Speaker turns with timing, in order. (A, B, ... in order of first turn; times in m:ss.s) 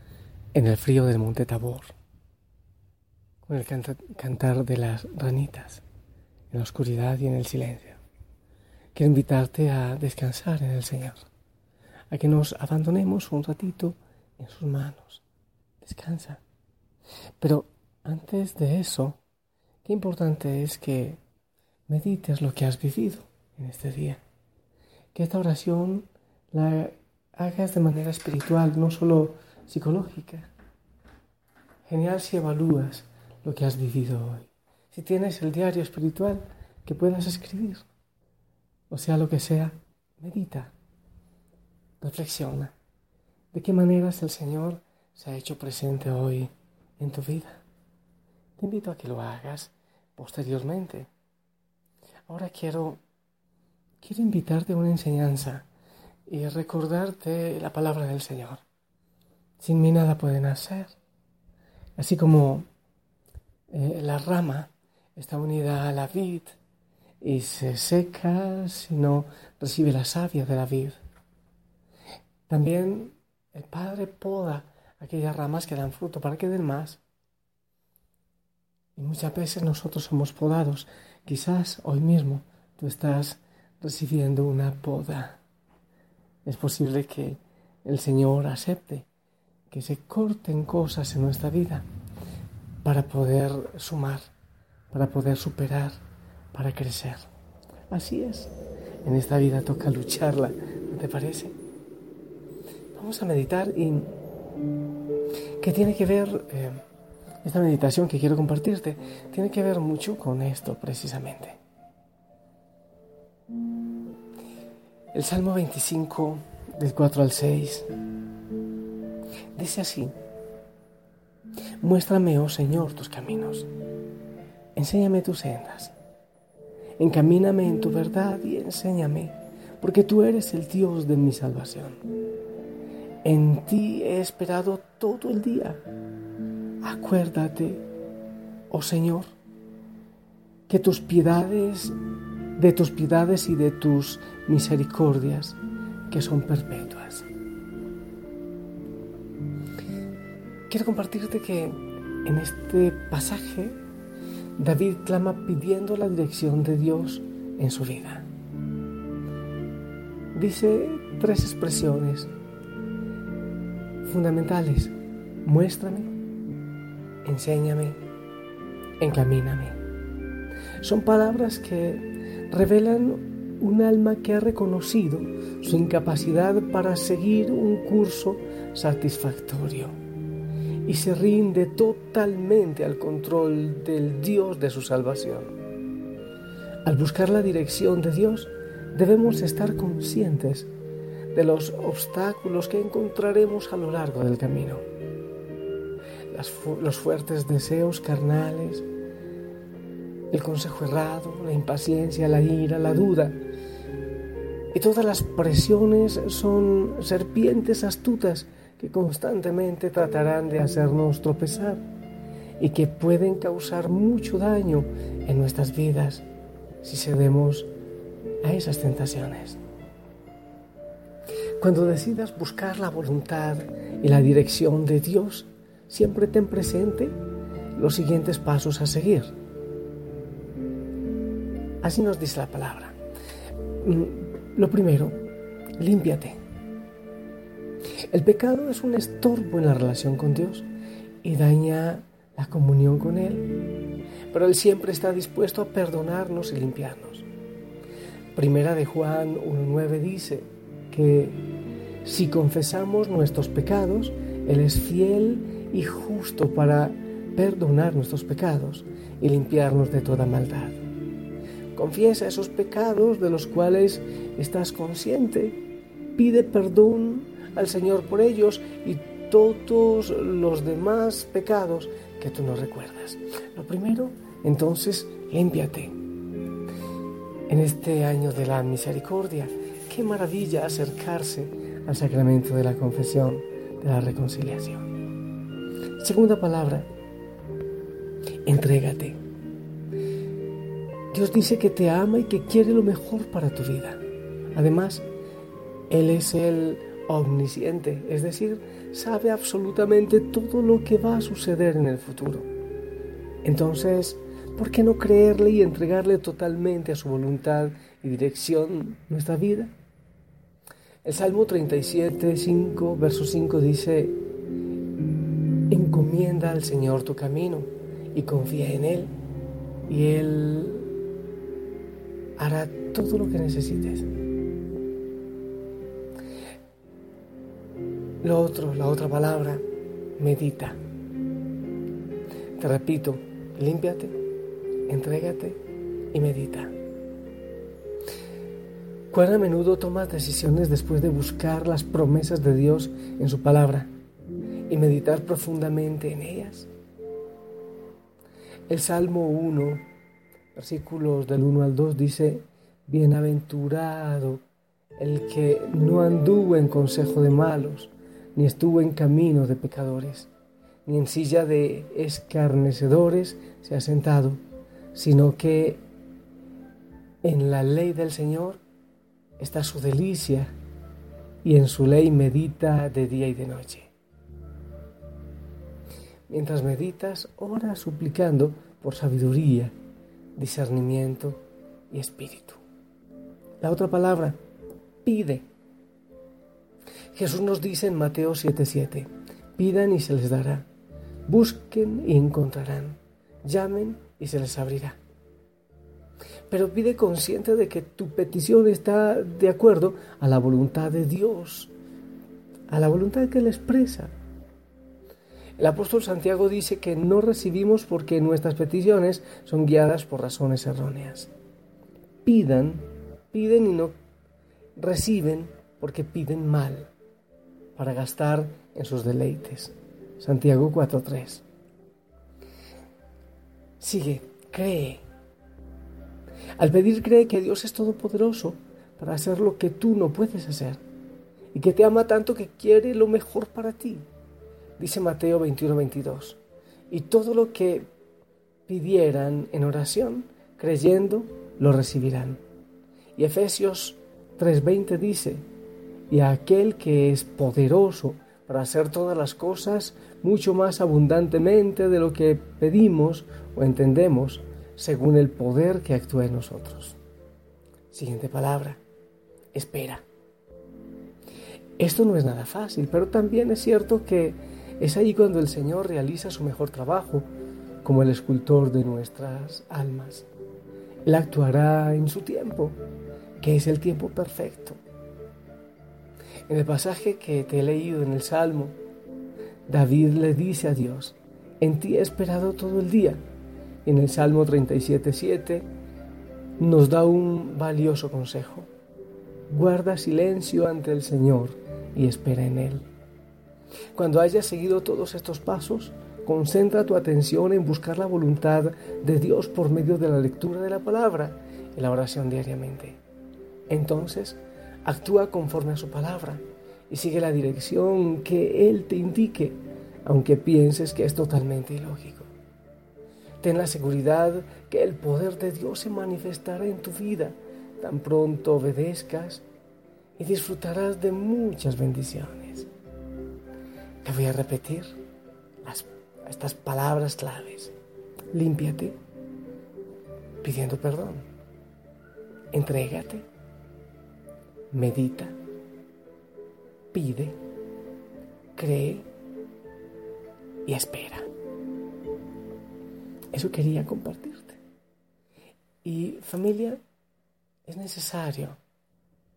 0:00.5-0:01.9 A
0:03.4-0:05.8 A
0:06.5-0:08.0 A
0:08.9-0:11.2 A
0:12.1-0:15.2 A
0:15.8-0:16.4 A
0:17.4-0:19.2 A
0:19.8-0:21.2 A
0:21.9-0:24.2 A
0:25.1-0:30.5 A
0:31.9-0:37.9 A
0:38.9-0:40.7 A
0:42.0-0:42.7 A
0:43.5-0:47.6 A
0:48.6-0:51.1 A
0:52.3-0:53.0 A
0:54.0-0:55.7 A
0:56.3-0:58.6 A
0:59.6-1:00.9 A
1:02.0-1:02.7 A
1:03.7-1:06.6 A
1:07.2-1:11.0 A
1:12.5-1:17.0 A
1:19.0-1:25.4 A
1:26.4-1:29.1 A
1:29.7-1:31.8 A
1:32.8-1:34.3 A
1:34.9-1:36.0 A
1:36.5-1:37.2 A
1:37.9-1:38.5 A
1:39.0-1:41.6 A
1:42.9-1:44.1 A
1:45.6-1:46.8 A
1:47.4-1:51.6 A
1:55.1-1:57.9 A
1:59.6-2:00.1 A
2:01.8-2:03.7 A
2:04.8-2:05.9 A
2:07.0-2:12.0 A
2:13.2-2:15.8 A
2:16.8-2:17.8 A
2:18.7-2:19.3 A
2:20.7-2:22.0 A
2:22.6-2:25.6 A
2:26.1-2:27.3 A
2:30.7-2:33.8 A
2:34.6-2:38.3 A
2:40.3-2:42.3 A
2:44.0-2:46.1 A
2:47.2-2:48.0 A
2:49.0-2:49.8 A
2:50.8-3:00.0 A
3:00.8-3:05.5 A
3:06.8-3:10.7 A
3:11.3-3:14.8 A
3:16.3-3:18.8 A
3:20.3-3:23.4 A
3:24.7-3:31.8 A
3:32.6-3:36.2 A
3:36.8-3:37.7 A
3:38.4-3:39.6 A
3:41.6-3:47.2 A
3:47.7-3:49.3 A
3:51.8-3:53.0 A
3:53.8-3:55.2 A
3:55.8-3:56.4 A
3:58.1-4:00.7 A
4:01.2-4:03.5 A
4:04.3-4:07.3 A
4:08.3-4:11.4 A
4:12.0-4:20.8 A
4:21.7-4:25.6 A
4:26.2-4:36.0 A
4:37.5-4:44.9 A
4:46.0-4:46.9 A
4:48.4-4:49.2 A
4:51.1-4:54.0 A
4:54.5-4:55.0 A
4:55.9-5:02.5 A
5:03.4-5:09.7 A
5:11.0-5:14.2 A
5:15.7-5:19.1 A
5:19.9-5:20.9 A
5:22.4-5:24.1 A
5:28.2-5:29.6 A
5:30.2-5:30.8 A
5:32.6-5:34.2 A
5:34.9-5:35.6 A
5:36.1-5:36.8 A
5:39.1-5:43.9 A
5:44.7-5:46.7 A
5:48.7-5:49.8 A
5:50.5-5:54.4 A
5:55.0-6:00.3 A
6:00.8-6:04.4 A
6:04.9-6:05.8 A
6:07.2-6:08.6 A
6:09.4-6:10.5 A
6:11.4-6:13.9 A
6:16.3-6:19.7 A
6:20.4-6:22.6 A
6:23.6-6:24.4 A
6:25.0-6:25.5 A
6:27.1-6:30.7 A
6:31.3-6:35.0 A
6:36.5-6:41.7 A
6:42.7-6:44.1 A
6:45.6-6:51.3 A
6:52.2-6:53.9 A
6:54.8-6:56.9 A
6:57.8-7:01.4 A
7:03.8-7:05.0 A
7:06.6-7:10.8 A
7:11.5-7:14.0 A
7:14.8-7:16.4 A
7:16.9-7:17.9 A
7:18.7-7:22.4 A
7:23.2-7:25.4 A
7:26.1-7:37.0 A
7:37.9-7:38.8 A
7:39.5-7:40.0 A
7:41.8-7:47.3 A
7:47.8-7:50.3 A
7:51.0-7:52.8 A
7:53.4-7:54.8 A
7:56.5-7:58.8 A
7:59.7-8:03.2 A
8:03.8-8:05.7 A
8:06.6-8:08.7 A
8:09.5-8:12.8 A
8:13.9-8:23.0 A
8:23.7-8:32.3 A
8:33.4-8:39.4 A
8:40.2-8:42.7 A
8:44.0-8:44.9 A
8:45.6-8:47.7 A
8:48.3-8:49.0 A
8:50.4-8:51.2 A
8:52.5-8:53.3 A
8:54.7-8:55.4 A
8:56.9-8:57.4 A
8:58.5-8:59.1 A
9:00.6-9:01.3 A
9:03.3-9:04.6 A
9:05.8-9:06.8 A
9:07.6-9:08.6 A